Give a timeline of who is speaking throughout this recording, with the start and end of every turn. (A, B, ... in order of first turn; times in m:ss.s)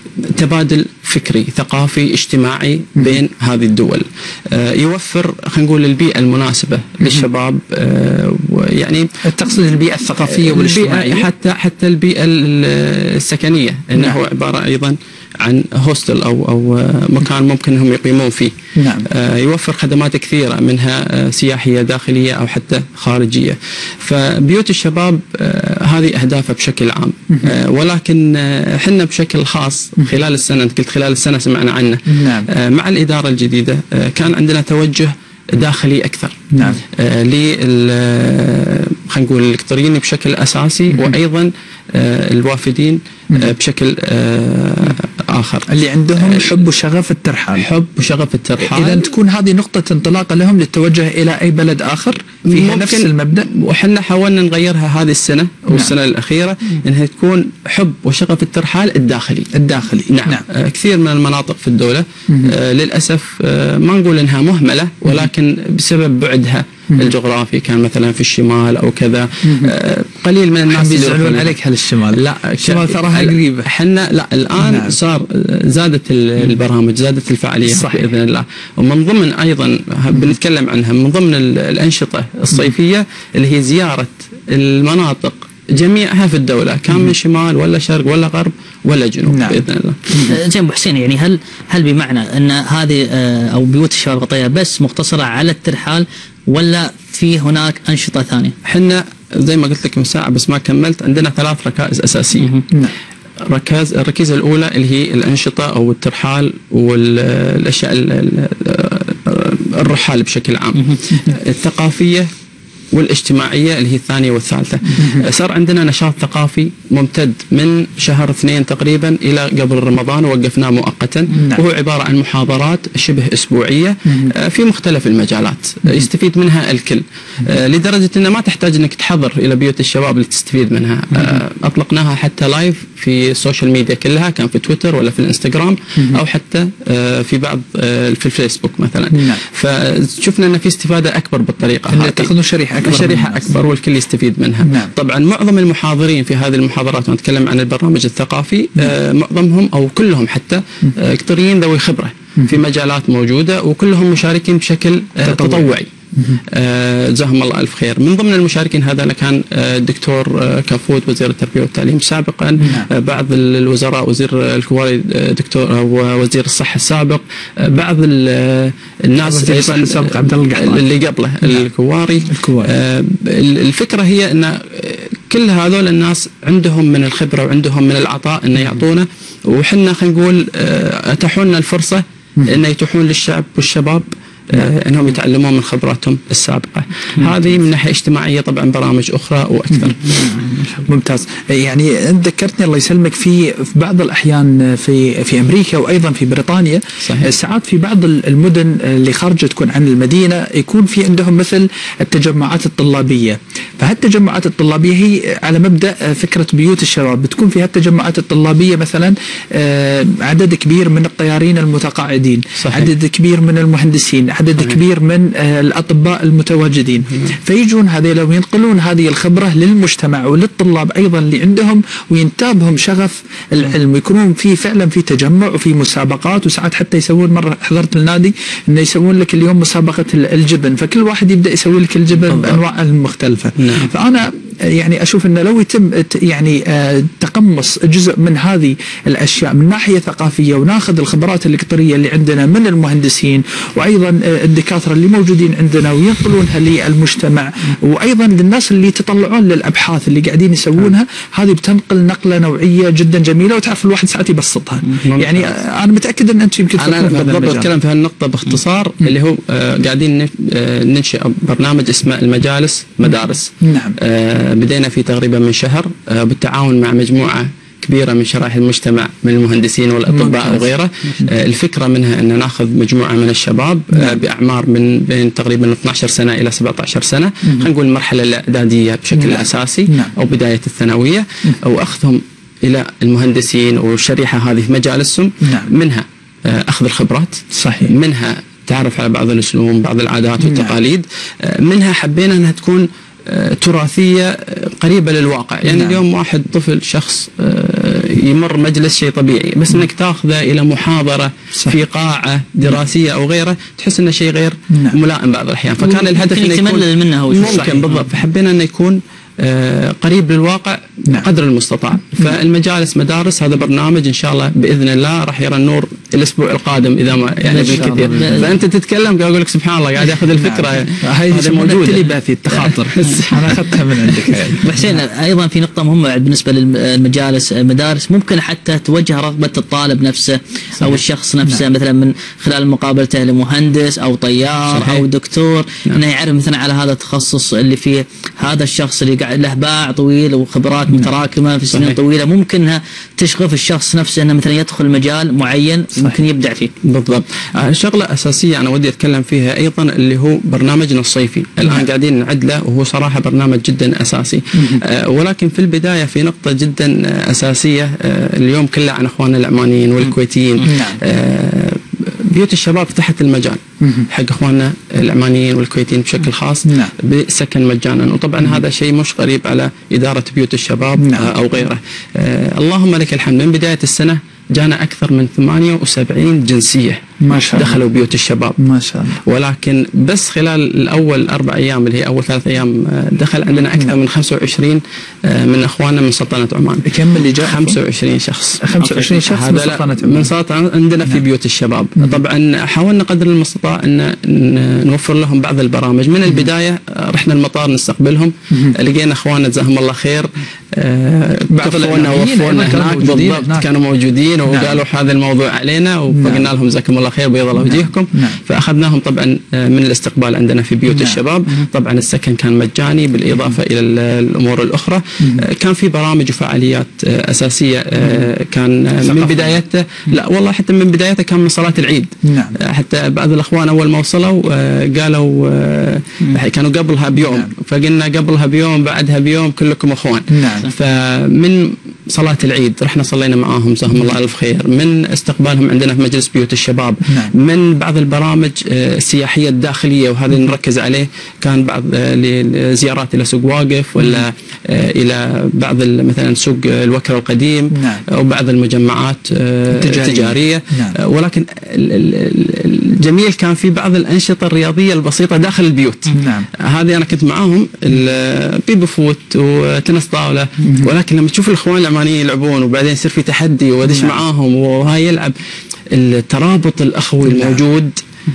0:00.2-0:09.1 A
0:09.2-0:11.3 B
0:10.2-0:18.5 A
0:18.8-0:19.1 B
0:19.1-0:36.4 A
0:32.1-0:32.5 B
0:36.5-0:36.8 B
0:37.0-0:46.6 A
0:45.7-0:47.7 B
0:47.6-0:49.0 A
0:48.6-0:53.5 B
0:52.5-0:59.5 A
0:59.5-1:00.4 B
1:00.1-1:11.6 A
1:02.3-1:02.6 B
1:09.4-1:09.7 B
1:10.7-1:13.7 B
1:12.1-1:30.1 A
1:14.6-1:15.0 B
1:17.7-1:18.1 B
1:29.2-1:29.6 B
1:30.1-1:30.4 B
1:30.2-1:38.5 C
1:38.6-1:42.5 A
1:43.5-1:52.3 A
1:52.9-2:35.9 A
1:54.9-1:55.2 B
2:01.3-2:01.6 B
2:19.1-2:19.4 B
2:21.9-2:23.5 B
2:24.6-2:24.9 B
2:35.2-2:36.4 B
2:36.5-3:10.7 A
2:42.6-2:42.9 B
2:49.2-2:50.8 B
2:52.3-2:52.7 B
3:09.7-4:17.7 B
3:17.0-3:17.3 A
3:32.6-3:32.9 A
3:52.3-3:52.6 A
3:53.6-3:53.9 A
4:14.9-4:15.6 A
4:16.8-5:24.6 A
4:23.0-4:24.0 B
4:30.1-4:31.3 B
4:33.9-4:34.2 B
4:37.4-4:37.7 B
4:39.1-4:40.1 B
4:45.4-4:45.7 B
4:47.5-4:47.9 B
4:50.4-4:50.7 B
4:55.6-4:56.0 B
5:05.8-5:07.8 C
5:17.5-5:18.5 C
5:17.5-5:18.6 B
5:20.3-5:24.6 B
5:24.6-5:46.7 C
5:34.7-5:35.0 A
5:41.7-5:42.0 A
5:46.0-5:46.2 B
5:46.8-6:18.6 A
5:51.6-5:51.9 B
5:54.6-5:54.8 B
6:00.6-6:01.0 B
6:03.8-6:04.1 B
6:06.7-6:06.9 B
6:11.0-6:11.3 B
6:17.2-6:17.8 B
6:18.6-6:19.2 B
6:19.2-7:45.3 A
6:26.8-6:27.8 B
6:28.6-6:30.3 B
6:41.5-6:43.7 B
6:44.5-6:44.8 B
6:46.1-6:46.5 B
6:47.6-6:48.4 B
6:50.9-6:51.2 B
6:58.0-6:58.3 B
6:59.0-6:59.6 B
7:02.2-7:02.6 B
7:07.2-7:07.5 B
7:10.3-7:10.7 B
7:24.0-7:24.2 B
7:27.7-7:28.0 B
7:29.7-7:31.0 B
7:36.1-7:36.5 B
7:40.6-7:40.9 B
7:43.8-7:44.2 B
7:45.9-7:48.0 A
7:47.2-7:47.6 B